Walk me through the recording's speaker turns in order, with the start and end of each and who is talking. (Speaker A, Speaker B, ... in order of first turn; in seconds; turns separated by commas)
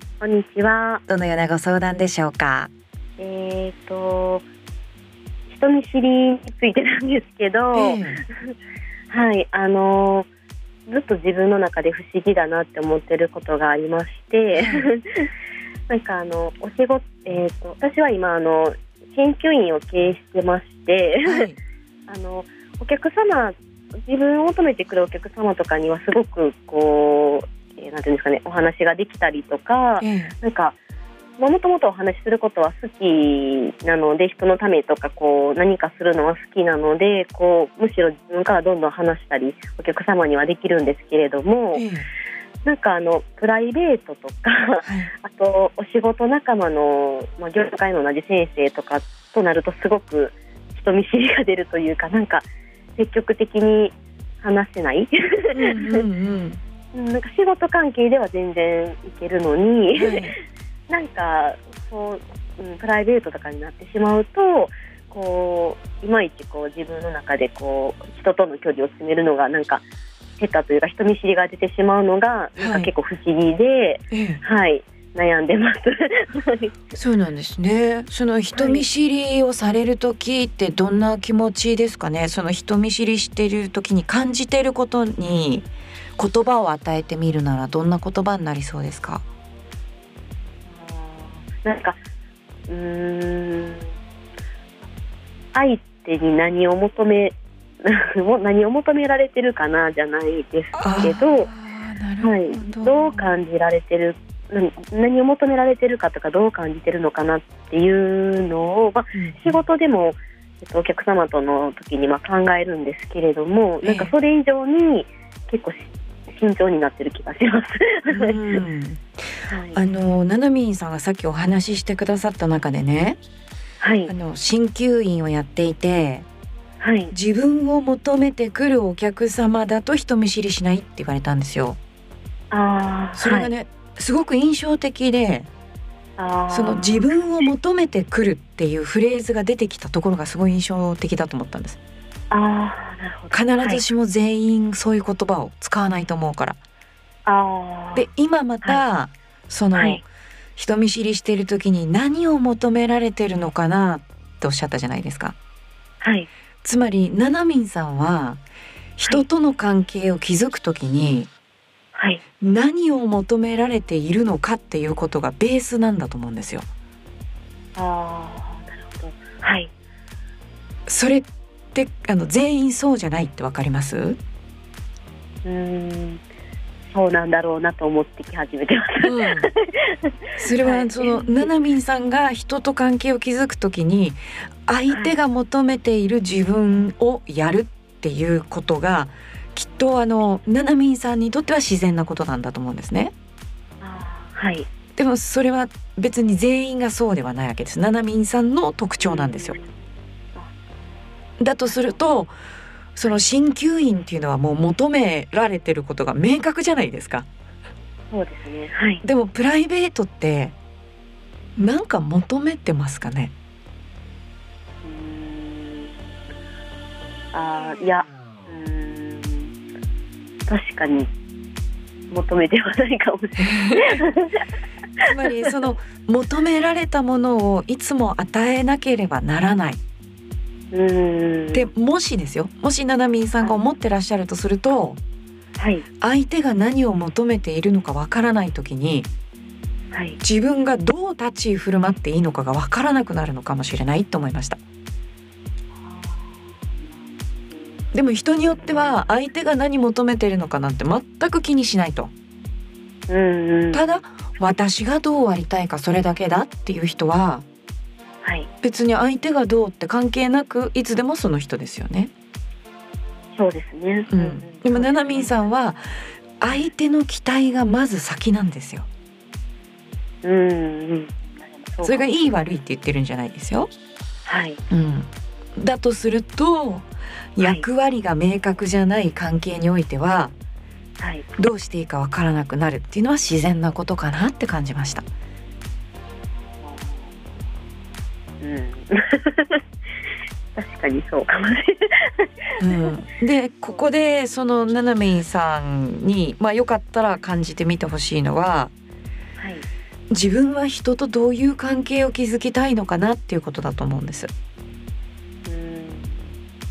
Speaker A: 0.2-1.0, Speaker B: 1.1-2.7, Speaker A: 3.2-4.4, Speaker A: 5.5-8.2, Speaker B: 7.7-8.2, Speaker A: 9.1-10.3, Speaker A: 10.9-15.3, Speaker B: 14.5-14.9, Speaker A: 15.9-21.4, Speaker B: 21.2-21.6, Speaker A: 22.1-30.8, Speaker B: 30.0-30.3, Speaker A: 31.4-41.9, Speaker B: 41.7-42.0, Speaker A: 42.6-56.0, Speaker B: 44.8-45.1, Speaker B: 55.5-56.6, Speaker A: 56.9-60.3, Speaker B: 60.0-60.3, Speaker A: 60.9-69.8, Speaker A: 70.4-76.8, Speaker B: 72.6-72.9, Speaker B: 74.1-74.4, Speaker B: 76.9-89.2, Speaker A: 78.5-78.8, Speaker A: 90.7-92.0, Speaker A: 92.7-93.9, Speaker A: 95.5-101.5, Speaker B: 100.8-103.4, Speaker A: 102.2-118.6, Speaker B: 109.1-109.6, Speaker B: 113.8-114.1, Speaker B: 118.1-119.0, Speaker A: 119.5-119.8, Speaker B: 119.7-123.2, Speaker A: 123.8-124.1, Speaker B: 124.1-126.2, Speaker A: 126.8-127.1, Speaker B: 127.1-131.8, Speaker A: 132.5-133.5, Speaker B: 133.2-135.5, Speaker A: 136.2-137.1, Speaker B: 136.5-141.8, Speaker A: 142.3-143.8, Speaker B: 143.3-146.6, Speaker A: 147.2-148.1, Speaker B: 147.9-150.0, Speaker A: 149.7-150.0, Speaker B: 150.6-155.3, Speaker A: 156.0-156.3, Speaker B: 156.6-158.4, Speaker B: 159.0-161.3, Speaker A: 161.9-162.2, Speaker B: 162.4-166.7, Speaker A: 167.8-169.7, Speaker B: 170.9-174.2, Speaker A: 175.4-176.2, Speaker A: 176.9-181.5, Speaker B: 179.0-179.5, Speaker B: 180.4-193.1, Speaker A: 184.9-185.2, Speaker A: 193.8-194.7, Speaker B: 194.9-199.6, Speaker A: 199.0-199.7, Speaker B: 201.4-202.3, Speaker A: 201.7-202.0, Speaker B: 202.9-207.3, Speaker A: 208.1-209.0, Speaker B: 209.0-210.5, Speaker B: 211.6-213.3, Speaker A: 214.8-215.9, Speaker A: 217.3-219.5, Speaker A: 220.5-221.1, Speaker A: 222.1-224.4, Speaker B: 223.4-223.9, Speaker A: 225.0-225.5, Speaker B: 225.0-229.8, Speaker A: 230.7-231.7, Speaker B: 231.5-235.0, Speaker A: 235.6-235.8, Speaker B: 236.0-239.1, Speaker A: 239.9-240.2, Speaker B: 240.2-244.6, Speaker A: 245.8-246.9, Speaker B: 247.9-252.1, Speaker A: 253.1-254.0, Speaker B: 253.7-257.4, Speaker A: 258.2-258.5, Speaker B: 258.6-262.1, Speaker A: 263.4-265.4, Speaker B: 264.1-265.8, Speaker B: 266.4-268.9, Speaker A: 270.2-272.1, Speaker B: 271.8-273.7, Speaker A: 274.2-274.6, Speaker B: 274.7-280.3, Speaker A: 277.4-277.6, Speaker A: 281.0-281.2, Speaker B: 281.4-285.1, Speaker A: 286.6-287.1, Speaker A: 288.4-289.6, Speaker A: 290.5-292.9, Speaker B: 292.6-298.7, Speaker A: 299.4-299.7, Speaker B: 300.1-304.3, Speaker A: 305.4-306.3